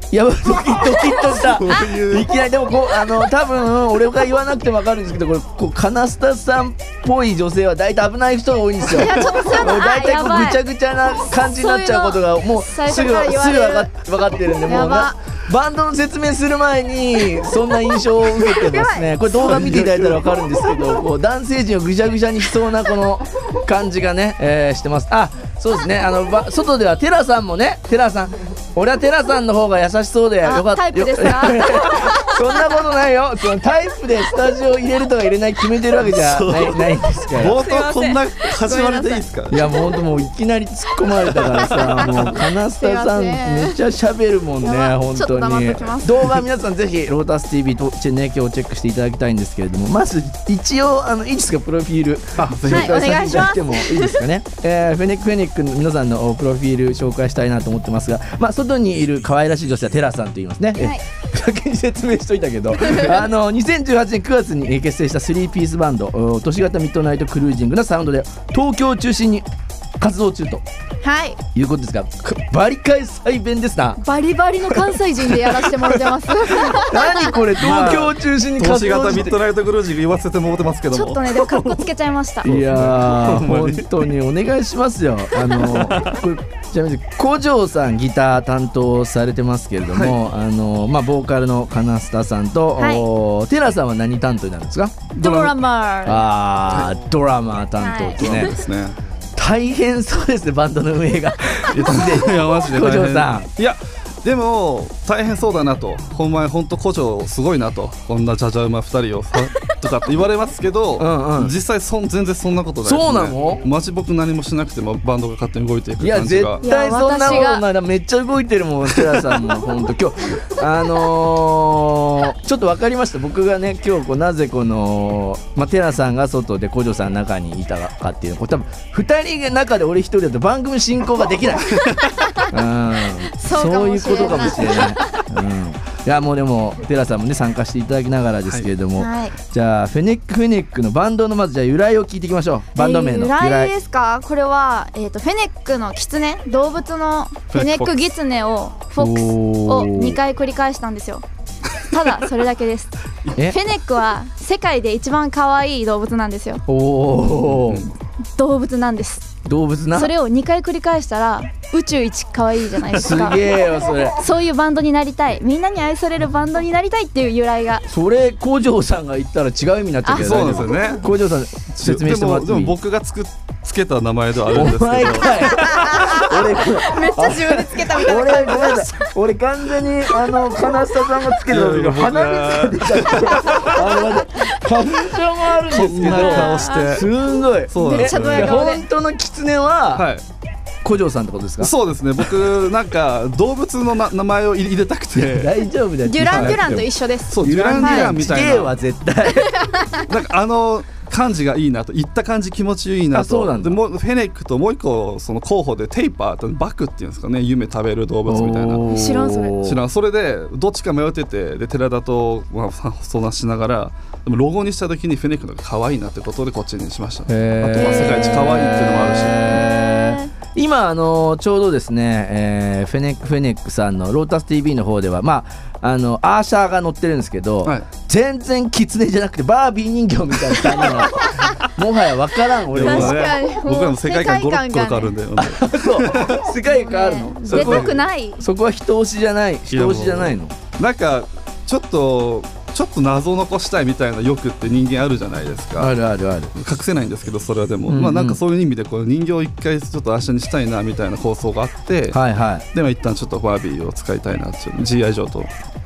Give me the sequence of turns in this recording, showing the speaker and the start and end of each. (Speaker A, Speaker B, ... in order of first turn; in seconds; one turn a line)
Speaker A: 0.1-37.6
Speaker B: 1.4-2.3
Speaker C: 8.8-10.6
Speaker B: 9.1-9.3
Speaker C: 11.3-13.9
Speaker C: 14.6-15.2
Speaker C: 18.5-19.1
Speaker B: 19.4-20.5
Speaker C: 30.4-32.4
Speaker B: 36.0-39.6
Speaker C: 37.5-39.8
Speaker A: 39.5-69.4
Speaker C: 41.4-43.8
Speaker B: 41.4-42.3
Speaker C: 44.6-46.4
Speaker B: 52.4-53.0
Speaker C: 52.7-54.3
Speaker C: 60.8-61.0
Speaker C: 62.9-63.2
Speaker A: 70.0-70.6
Speaker C: 71.0-71.4
Speaker A: 71.5-74.0
Speaker C: 74.0-77.4
Speaker A: 76.7-79.4
Speaker B: 77.6-81.8
Speaker C: 80.9-82.5
Speaker A: 82.4-95.1
Speaker B: 82.4-84.1
Speaker B: 85.3-86.2
Speaker B: 89.9-90.2
Speaker C: 92.8-93.0
Speaker B: 95.1-95.6
Speaker C: 95.2-96.2
Speaker A: 96.0-98.6
Speaker C: 97.8-98.5
Speaker B: 98.2-99.0
Speaker A: 99.4-103.5
Speaker B: 101.7-116.7
Speaker A: 111.0-111.5
Speaker A: 112.8-113.6
Speaker A: 116.0-131.7
Speaker C: 116.6-117.6
Speaker B: 117.2-117.5
Speaker B: 118.9-119.5
Speaker B: 131.7-132.1
Speaker A: 132.5-143.7
Speaker C: 133.3-135.1
Speaker C: 139.0-139.3
Speaker C: 142.7-151.2
Speaker B: 147.5-148.0
Speaker A: 149.0-150.2
Speaker C: 151.8-156.6
Speaker A: 156.7-157.9
Speaker B: 157.4-157.9
Speaker C: 158.4-159.3
Speaker A: 159.4-160.1
Speaker C: 159.9-163.5
Speaker A: 162.9-164.2
Speaker C: 164.2-167.8
Speaker A: 167.9-172.8
Speaker C: 170.0-170.6
Speaker B: 170.1-171.1
Speaker B: 171.7-175.5
Speaker A: 174.5-190.1
Speaker C: 175.2-178.9
Speaker B: 181.4-183.8
Speaker C: 184.4-184.9
Speaker B: 185.6-187.1
Speaker C: 186.1-187.0
Speaker B: 187.7-188.7
Speaker C: 187.8-188.8
Speaker B: 189.9-190.2
Speaker A: 190.8-191.7
Speaker B: 191.6-195.6
Speaker A: 195.1-196.9
Speaker C: 196.0-198.4
Speaker B: 196.2-198.8
Speaker A: 197.4-199.7
Speaker C: 199.2-200.0
Speaker B: 200.1-208.8
Speaker A: 203.1-203.8
Speaker A: 208.3-209.8
Speaker C: 208.9-209.5
Speaker B: 209.6-219.7
Speaker A: 217.3-233.3
Speaker C: 217.8-220.3
Speaker B: 232.7-236.4
Speaker C: 232.7-235.2
Speaker A: 235.4-240.6
Speaker C: 236.6-238.4
Speaker B: 237.5-238.0
Speaker B: 239.7-245.9
Speaker A: 245.8-246.5
Speaker B: 246.5-252.2
Speaker A: 247.9-248.4
Speaker A: 252.1-252.6
Speaker B: 252.7-255.5